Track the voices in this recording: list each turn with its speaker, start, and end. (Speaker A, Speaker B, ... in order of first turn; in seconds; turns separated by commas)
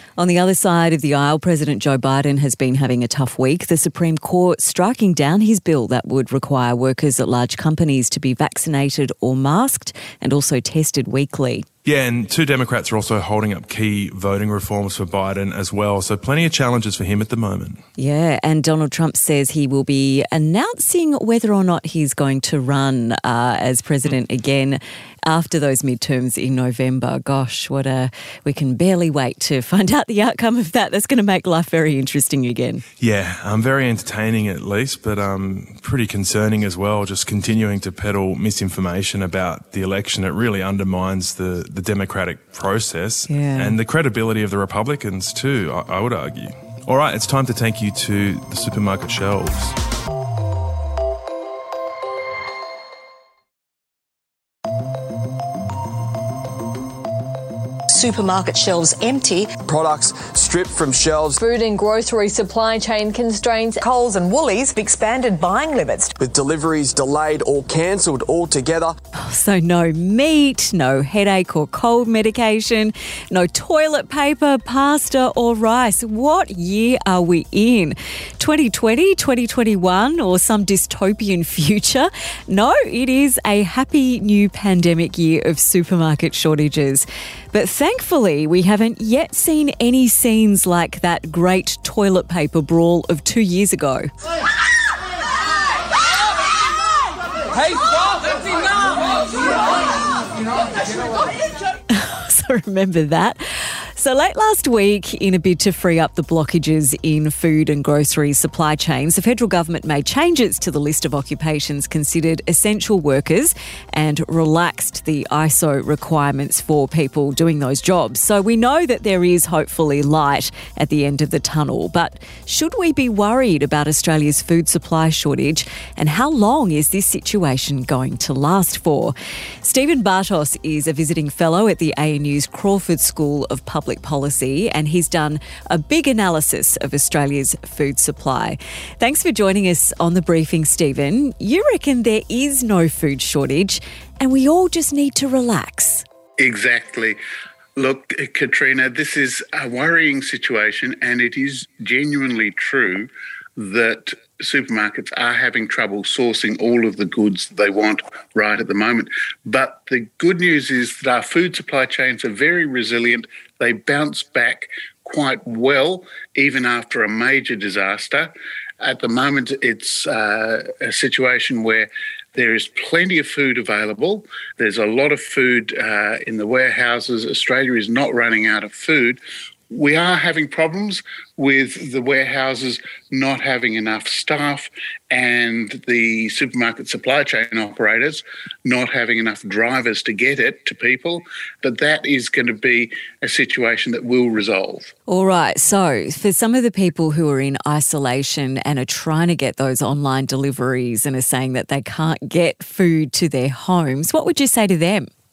Speaker A: 0.2-11.7, Speaker B: 11.8-17.8, Speaker A: 18.0-32.8, Speaker B: 33.0-49.7, Speaker A: 43.3-43.8, Speaker C: 57.9-59.6, Speaker D: 59.6-61.4, Speaker E: 61.4-63.8, Speaker C: 63.8-66.1, Speaker D: 66.2-69.0, Speaker A: 69.2-94.1, Speaker A: 101.9-146.1, Speaker F: 146.4-147.2, Speaker F: 147.8-179.2, Speaker F: 179.7-194.9, Speaker A: 195.1-205.1